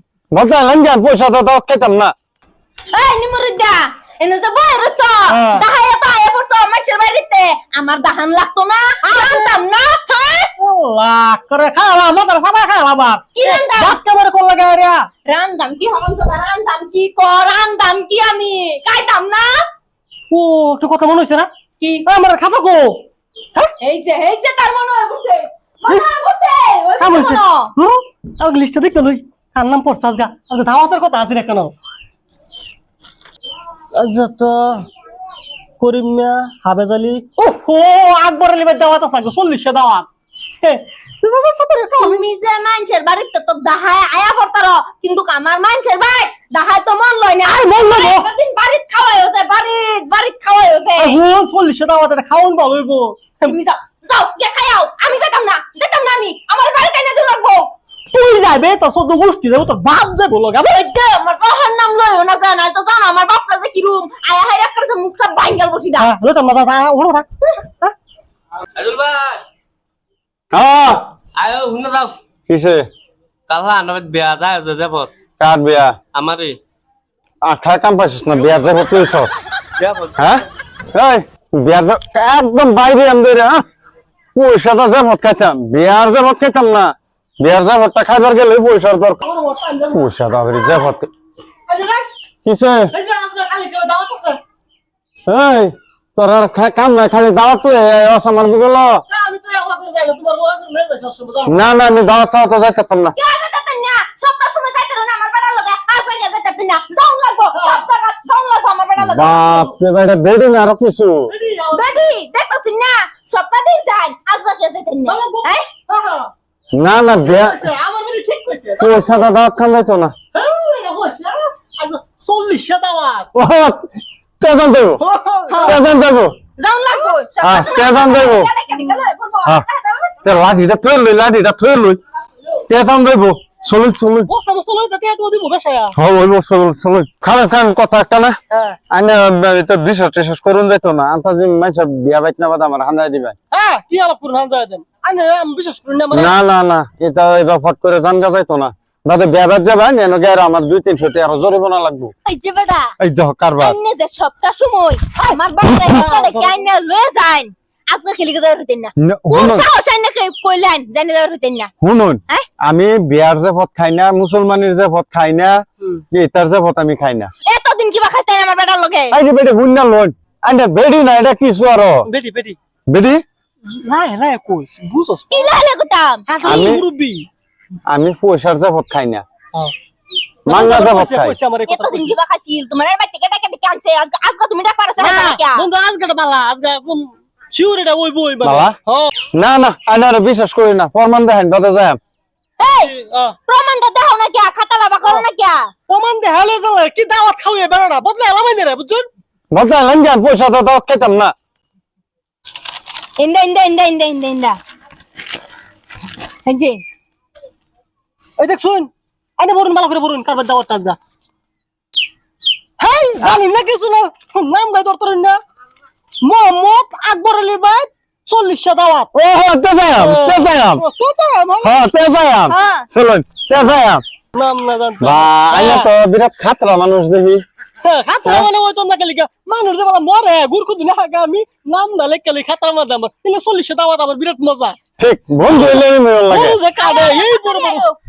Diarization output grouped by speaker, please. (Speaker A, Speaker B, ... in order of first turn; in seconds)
Speaker A: 0.3-2.1, 70.5-71.0, 72.5-72.8, 75.4-76.0, 77.4-79.3, 80.2-80.4, 80.9-83.6, 84.3-89.2, 89.9-91.1, 92.4-92.9, 95.3-99.0, 101.5-103.1, 109.0-111.3, 116.7-117.6, 118.8-120.1, 123.3-125.0, 125.6-126.4, 127.4-128.5, 130.2-132.0, 132.7-134.3, 135.9-138.3, 138.9-143.3, 146.1-152.1, 153.0-153.8, 159.0-159.7, 161.8-165.6, 166.1-167.3, 169.1-172.1, 172.9-173.2, 176.4-176.8, 177.9-179.2, 180.5-181.4, 188.4-188.8, 189.3-192.0, 199.5-201.3, 219.1-220.8, 221.6-224.0, 225.0-227.4, 235.0-236.6
Speaker B: 2.9-10.5, 13.3-14.0, 15.2-19.6, 21.8-22.1, 23.8-27.7, 42.0-51.2, 53.5-57.7, 60.6-66.1, 103.2-109.7, 111.7-115.6, 125.5-125.8, 126.6-130.1, 152.2-152.9, 153.6-161.7, 167.4-169.2, 175.3-176.6, 181.7-185.7, 192.6-192.9, 193.5-195.7, 203.2-204.6, 206.4-206.8, 222.5-222.8, 236.8-237.9
Speaker C: 5.3-5.6, 9.0-9.6, 10.6-15.1, 20.3-21.5, 22.1-23.0, 27.0-31.7, 33.9-34.9, 35.8-40.1, 40.6-42.2, 47.4-48.3, 51.0-53.5, 58.1-60.9, 66.0-67.9, 89.2-90.1, 91.7-92.0, 92.9-94.4, 99.1-101.6, 107.5-107.8, 111.3-112.0, 115.0-116.3, 117.2-119.2, 120.3-123.3, 125.0-125.8, 134.3-135.9, 138.5-138.8, 143.5-146.3, 155.3-156.5, 172.0-172.6, 173.7-175.6, 176.3-177.3, 180.5-182.1, 185.0-189.1, 192.8-193.3, 195.9-199.1, 208.4-211.0, 212.8-215.4, 216.2-219.1, 220.0-221.8, 224.3-225.9, 227.8-234.8, 235.4-237.8
Speaker D: 68.8-69.4, 71.3-72.2, 73.5-75.1, 76.1-76.6, 79.8-80.2